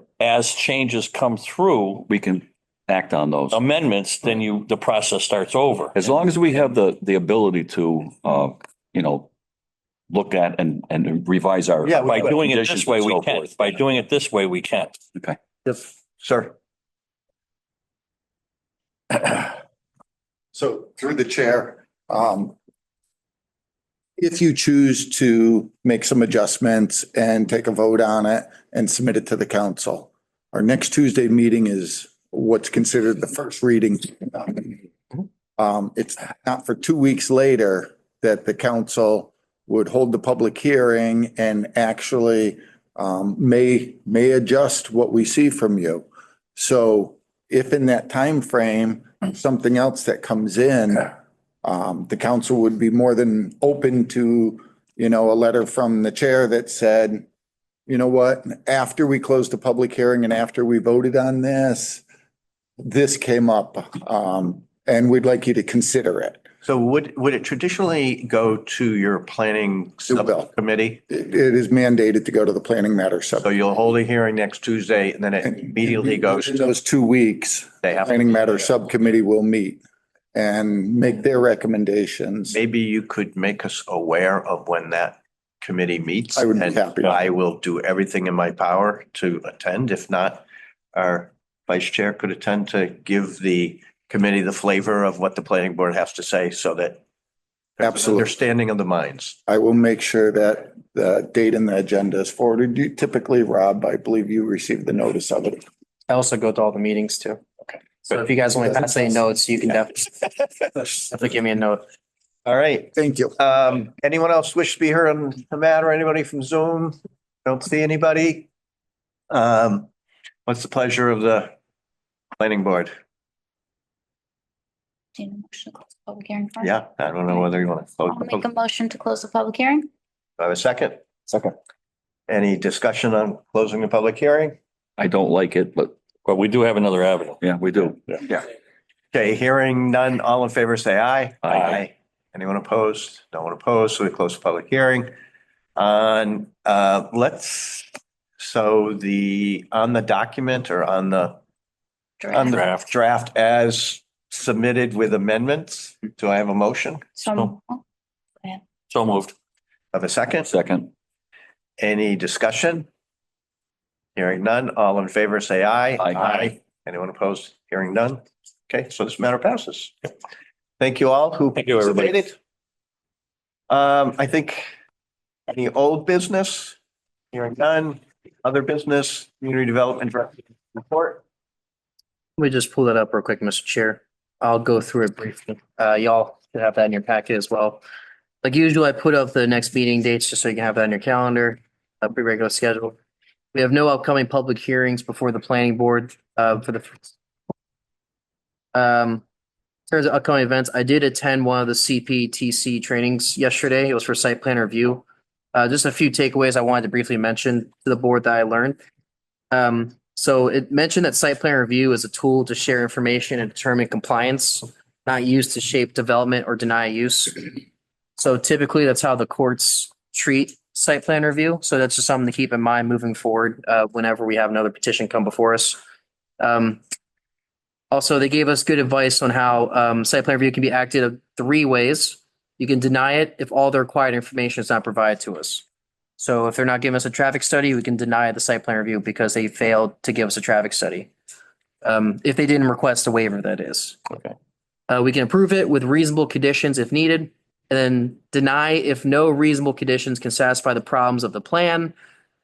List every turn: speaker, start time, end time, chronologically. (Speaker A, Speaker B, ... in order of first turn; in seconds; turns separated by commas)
Speaker A: 0.2-2.1, Speaker B: 2.1-3.6, Speaker A: 3.5-6.0, Speaker B: 6.0-9.3, Speaker B: 10.1-13.8, Speaker C: 11.8-12.4, Speaker A: 12.1-15.0, Speaker C: 15.7-16.5, Speaker D: 20.5-22.6, Speaker D: 24.2-34.9, Speaker D: 35.6-51.1, Speaker D: 51.6-57.3, Speaker D: 57.9-62.0, Speaker D: 62.8-66.4, Speaker C: 66.6-71.0, Speaker D: 70.1-70.5, Speaker D: 71.1-73.5, Speaker C: 73.4-76.7, Speaker D: 75.5-79.8, Speaker C: 77.8-78.5, Speaker D: 80.3-82.6, Speaker C: 82.5-97.0, Speaker D: 86.3-87.2, Speaker C: 97.8-99.4, Speaker D: 97.8-98.3, Speaker D: 99.5-105.7, Speaker E: 106.1-110.1, Speaker E: 110.7-111.8, Speaker C: 112.5-118.5, Speaker D: 113.0-113.3, Speaker C: 119.3-119.9, Speaker C: 120.5-121.5, Speaker C: 122.4-122.9, Speaker F: 125.2-126.8, Speaker C: 126.6-128.4, Speaker F: 127.3-127.5, Speaker F: 128.1-129.9, Speaker C: 130.4-131.1, Speaker C: 132.3-134.6, Speaker B: 135.0-136.0, Speaker A: 136.2-137.4, Speaker B: 137.4-138.4, Speaker C: 139.1-145.1, Speaker B: 141.4-141.8, Speaker C: 145.8-151.4, Speaker F: 152.2-152.6, Speaker C: 152.3-157.6, Speaker A: 152.5-152.8, Speaker F: 157.2-157.8, Speaker A: 158.9-159.3, Speaker C: 159.9-160.5, Speaker B: 160.4-160.9, Speaker C: 161.8-162.9, Speaker C: 164.2-169.9, Speaker C: 170.8-172.4, Speaker A: 171.5-172.2, Speaker C: 173.7-174.7, Speaker C: 175.5-176.8, Speaker C: 177.3-181.2, Speaker E: 182.4-187.8, Speaker E: 188.4-193.0, Speaker E: 193.5-197.1, Speaker E: 198.7-199.2, Speaker E: 199.9-208.8, Speaker E: 209.5-217.6, Speaker E: 218.2-225.8, Speaker E: 226.4-226.8, Speaker E: 227.9-235.6, Speaker E: 236.2-241.1, Speaker E: 241.8-244.0, Speaker E: 244.9-251.9